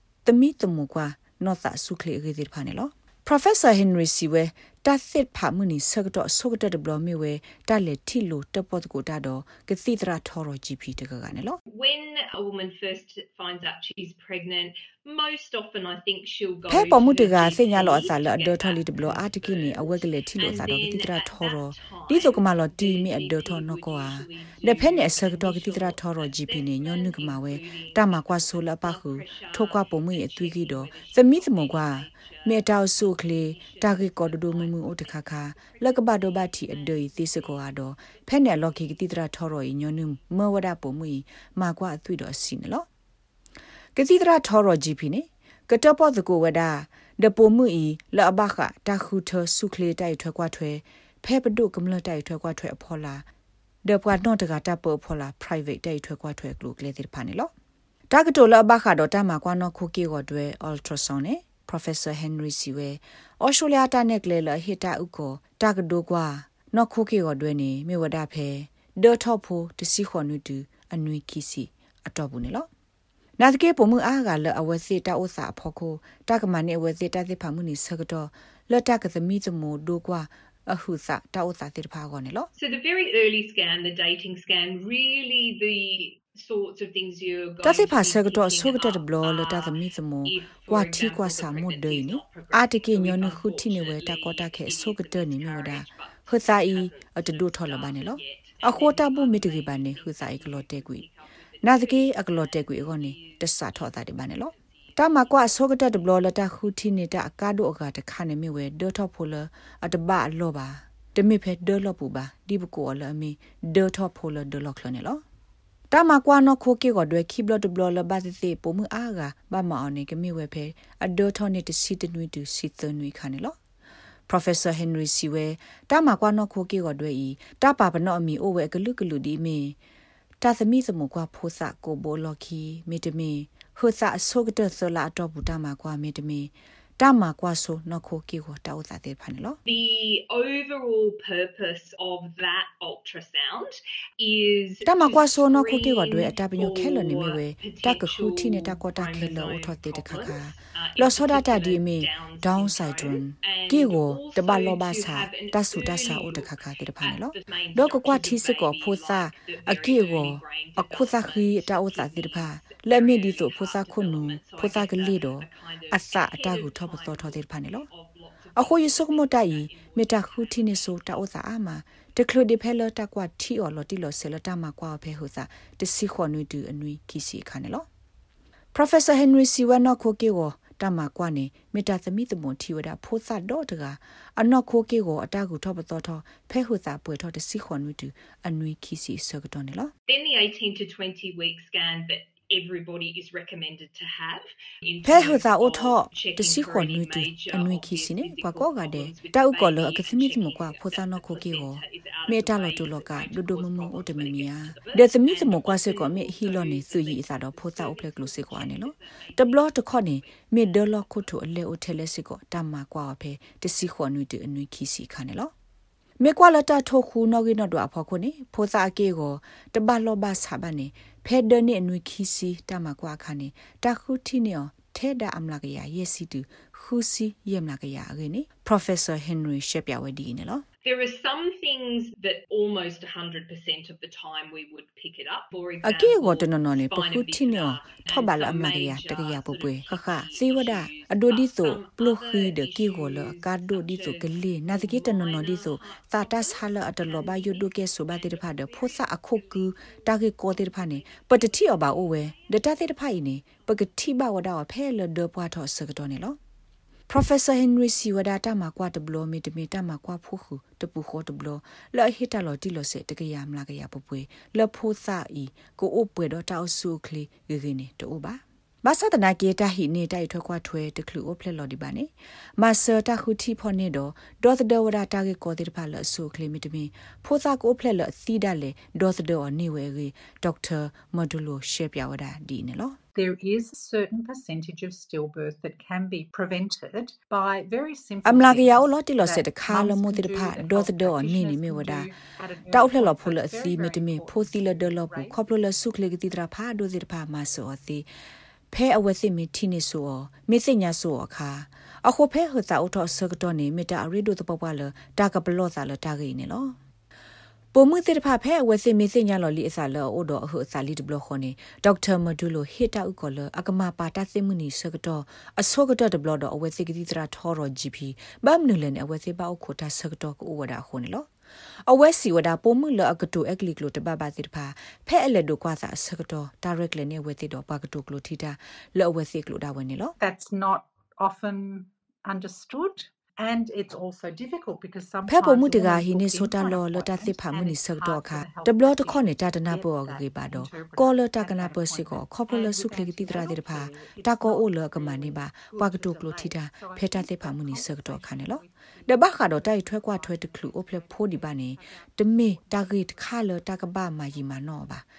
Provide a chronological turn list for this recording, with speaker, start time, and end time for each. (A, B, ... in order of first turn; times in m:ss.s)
0:00.2-0:11.6 A
0:11.7-0:39.0 B
0:16.7-0:42.9 A
0:44.0-0:53.2 A
0:53.8-0:57.5 A
0:58.1-1:12.7 A
1:13.4-1:22.5 A
1:22.6-1:46.5 B
1:27.6-1:41.0 A
1:41.6-1:55.2 A
1:55.9-2:03.6 A
2:04.3-2:09.8 A
2:10.4-2:19.6 A
2:19.7-2:51.3 B
2:24.8-2:47.9 A
2:48.6-2:57.9 A
2:58.7-3:09.9 A
3:10.1-3:31.3 B
3:15.0-3:35.5 A
3:36.2-3:50.6 A
3:50.8-4:13.9 B
3:55.8-4:16.4 A
4:17.1-4:43.0 A
4:43.1-4:55.4 C
4:48.2-4:52.1 A
4:52.7-4:58.1 A
4:58.7-5:06.8 A
5:07.7-5:21.3 A
5:21.9-5:30.2 A
5:30.2-5:54.6 C
5:35.3-5:55.0 A